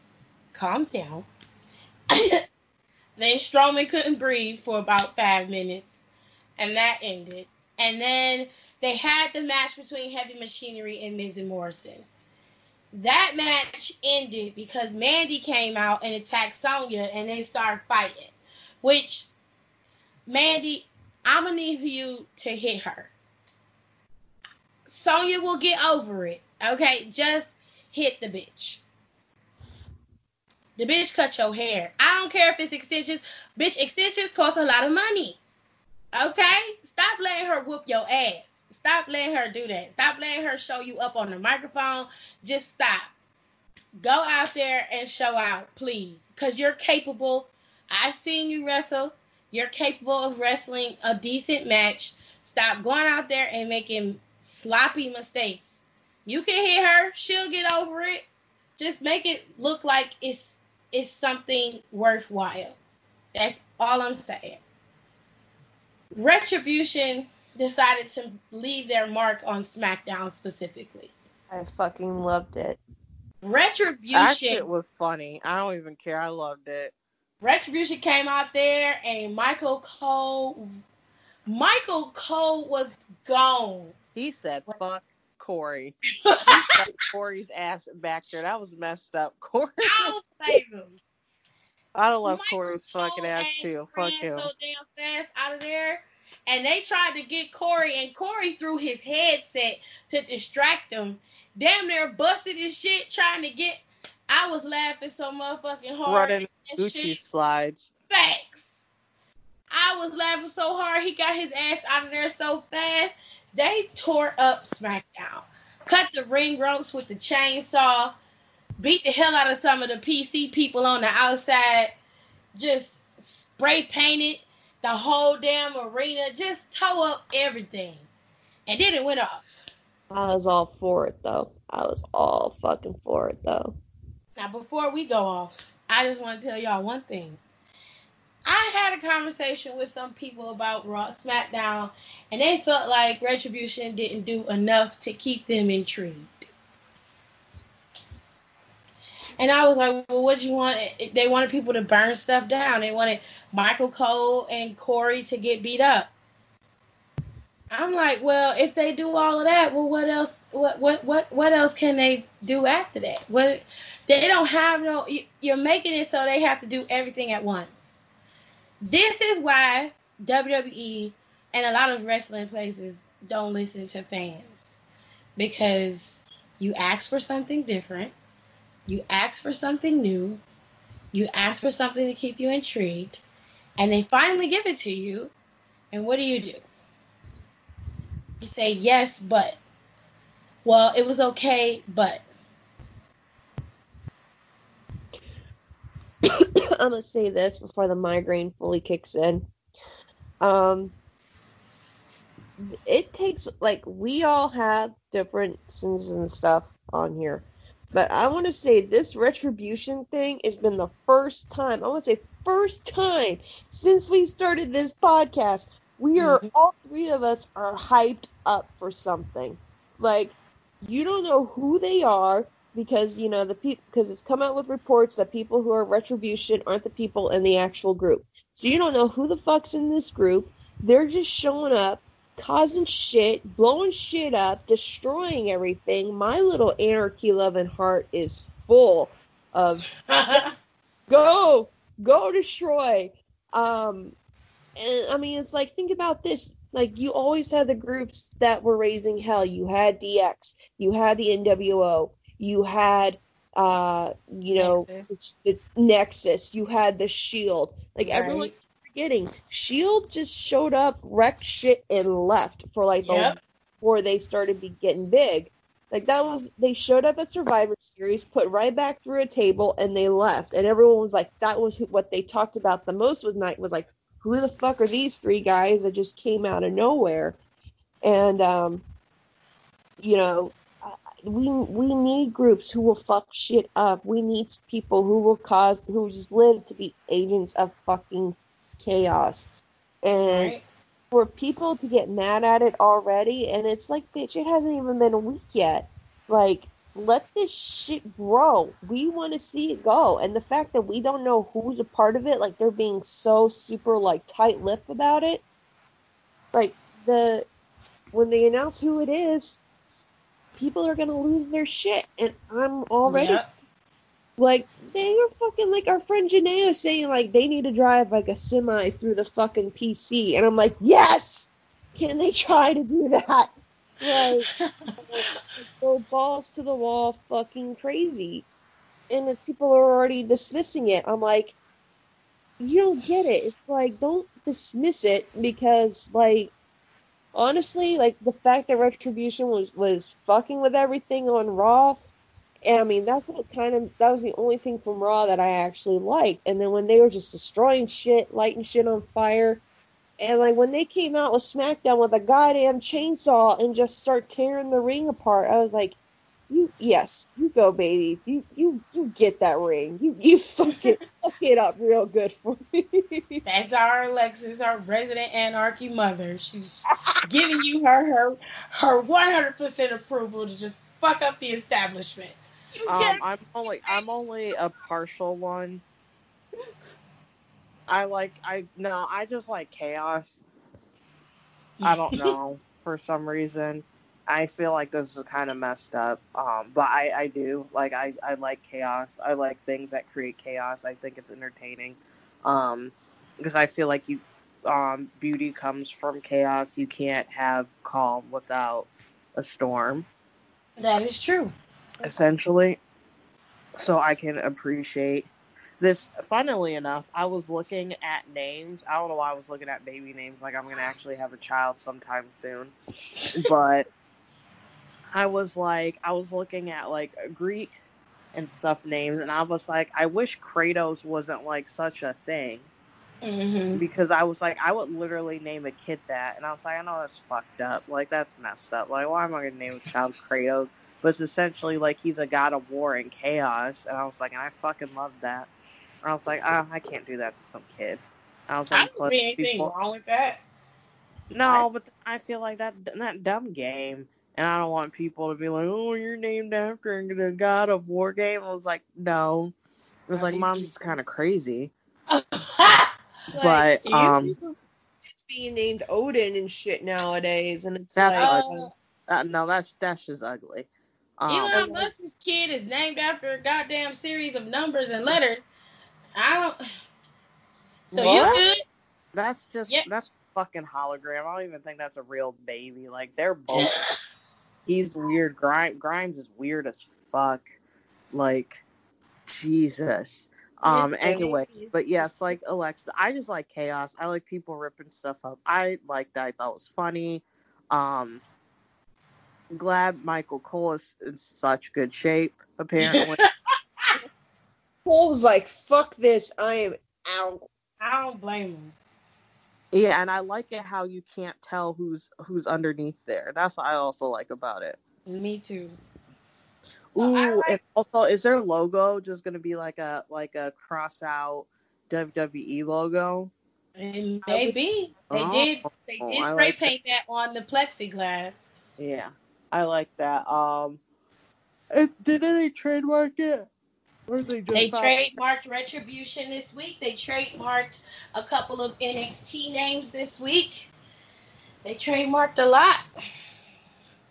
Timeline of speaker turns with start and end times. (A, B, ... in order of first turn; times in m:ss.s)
0:00.5-0:01.3 A
0:02.1-0:02.4 A
0:03.2-0:06.0 A
0:06.6-0:12.0 A
0:12.9-0:19.3 A
0:20.3-0:23.1 A
0:24.9-0:28.8 A
0:30.8-0:35.4 A
0:36.1-0:43.1 A
0:44.0-0:58.2 A
0:58.8-1:02.8 A
1:03.3-1:04.6 A
1:06.1-1:11.1 A
1:11.5-1:12.8 B
1:13.4-1:14.6 A
1:14.1-1:16.9 C
1:17.4-1:20.7 A
1:21.5-1:24.0 A
1:24.1-1:30.1 C
1:26.2-1:26.5 A
1:29.8-1:31.0 A
1:32.0-1:34.5 C
1:32.2-1:47.2 A
1:46.0-1:47.9 C
1:48.1-1:48.8 A
1:49.7-1:58.1 A
1:58.8-2:01.9 A
2:02.6-2:08.0 A
2:08.7-2:09.5 A
2:10.1-2:13.8 B
2:14.4-2:17.4 A
2:18.4-2:26.5 A
2:29.4-2:36.1 A
2:37.7-2:48.0 A
2:48.8-2:54.8 A
2:55.4-2:58.1 A
2:58.9-3:00.4 A
3:01.1-3:03.2 A
3:03.8-3:05.3 A
3:05.9-3:06.6 A
3:08.4-3:09.6 A
3:10.6-3:12.2 A
3:16.3-3:19.5 B
3:20.4-3:20.9 B
3:22.6-4:00.4 B
3:36.2-3:36.5 A
4:00.1-4:00.5 A
4:01.1-4:04.1 B
4:04.8-4:37.4 B
4:14.6-4:15.2 A
4:18.0-4:18.6 A
4:23.0-4:23.4 A
4:38.0-4:38.8 B
4:40.0-4:50.6 B
4:50.3-4:50.6 A
4:51.1-5:05.4 B
5:06.5-5:07.5 B
5:08.1-5:09.6 B
5:10.6-5:13.4 B
5:13.0-5:13.5 A
5:14.4-5:23.5 B
5:24.0-5:28.4 B
5:24.2-5:25.3 A
5:29.1-5:31.6 B
5:32.6-5:36.5 B
5:37.3-5:42.0 B
5:42.7-5:49.6 B
5:50.2-5:56.0 B
5:56.5-6:03.4 B
6:03.4-6:13.2 A
6:12.9-6:15.8 C
6:17.9-6:20.4 C
6:21.8-6:22.3 A
6:21.8-6:40.0 C
6:40.8-6:41.6 A
6:42.0-6:42.8 C
6:43.8-6:45.3 C
6:45.8-6:52.7 C
6:53.3-6:53.9 C
6:55.1-6:57.8 C
6:58.3-7:02.7 C
7:03.2-7:03.8 A
7:03.7-7:15.5 C
7:16.0-7:19.7 C
7:18.7-7:20.4 A
7:21.3-7:29.5 C
7:30.1-7:31.7 C
7:30.2-7:30.9 A
7:32.1-7:32.9 A
7:33.3-7:33.7 B
7:33.4-7:34.4 C
7:33.8-7:34.6 A
7:35.0-7:38.4 B
7:38.0-7:41.7 C
7:38.2-7:38.7 A
7:41.3-7:45.5 A
7:41.5-7:41.9 B
7:46.2-7:46.6 A
7:47.9-7:48.4 B
7:47.9-7:48.6 A
7:49.1-7:53.7 C
7:54.7-7:57.4 C
7:58.1-7:58.6 C
7:59.3-8:08.2 C
8:00.7-8:02.2 A
8:09.5-8:13.2 C
8:12.9-8:13.3 A
8:14.8-8:17.5 B
8:17.8-8:18.7 A
8:19.7-8:24.8 C
8:25.1-8:25.8 A
8:26.9-8:33.3 C
8:27.0-8:27.6 A
8:33.8-8:38.5 A
8:34.3-8:34.5 B
8:35.1-8:36.7 C
8:38.8-8:40.8 C
8:41.7-8:43.5 C
8:44.1-8:45.2 C
8:44.5-8:50.7 A
8:51.6-8:52.8 A